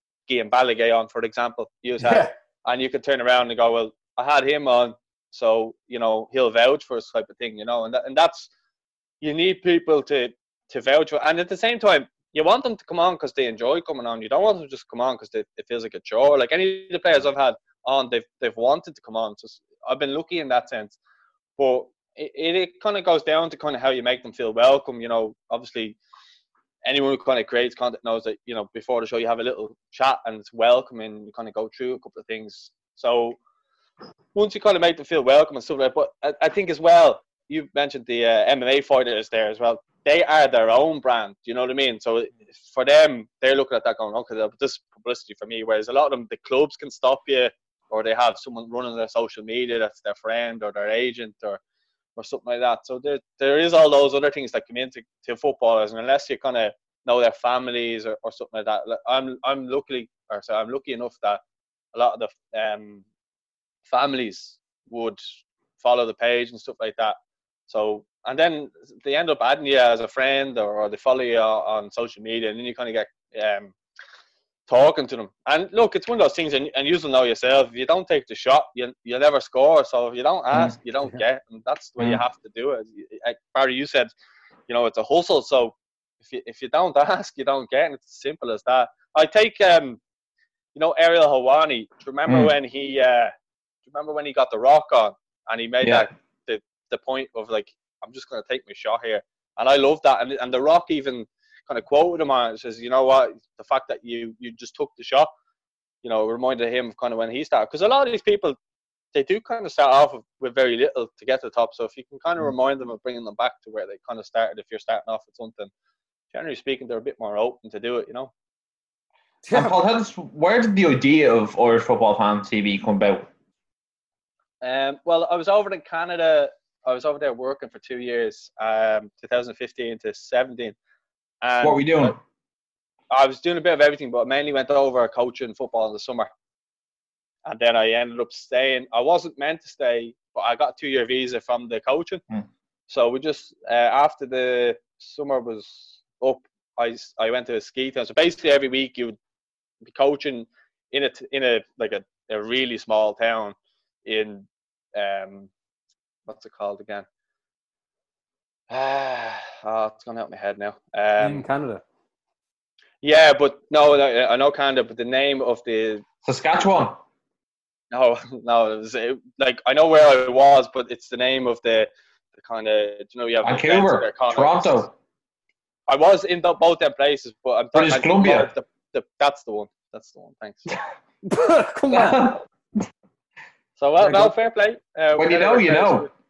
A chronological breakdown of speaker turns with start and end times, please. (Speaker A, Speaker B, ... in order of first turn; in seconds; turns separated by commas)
Speaker A: 0.3-8.5, Speaker B: 2.0-2.3, Speaker A: 9.2-21.0, Speaker A: 21.6-26.0, Speaker A: 26.8-33.4, Speaker A: 34.3-51.6, Speaker A: 52.2-61.4, Speaker A: 61.9-63.0, Speaker A: 63.9-65.2, Speaker A: 65.8-67.2, Speaker A: 67.7-73.7, Speaker A: 74.7-84.1, Speaker A: 84.7-90.0, Speaker A: 90.7-93.3, Speaker C: 92.3-92.5, Speaker A: 93.8-105.3, Speaker A: 106.0-108.5, Speaker A: 109.1-115.7, Speaker A: 116.3-118.3, Speaker B: 119.4-119.7, Speaker C: 119.5-123.3, Speaker A: 124.6-130.7, Speaker A: 131.4-132.2, Speaker C: 131.6-132.2, Speaker A: 133.1-136.3, Speaker A: 137.4-142.2, Speaker A: 142.9-149.2, Speaker A: 149.8-155.5, Speaker A: 156.3-157.1, Speaker A: 158.7-161.4, Speaker B: 161.2-161.8, Speaker A: 163.0-166.0, Speaker C: 166.2-167.0, Speaker A: 167.9-174.8, Speaker C: 173.4-174.9, Speaker A: 175.9-180.8, Speaker C: 177.7-178.5, Speaker B: 181.2-182.3, Speaker C: 181.9-182.4, Speaker A: 183.8-186.1, Speaker B: 184.0-184.3, Speaker C: 185.2-186.1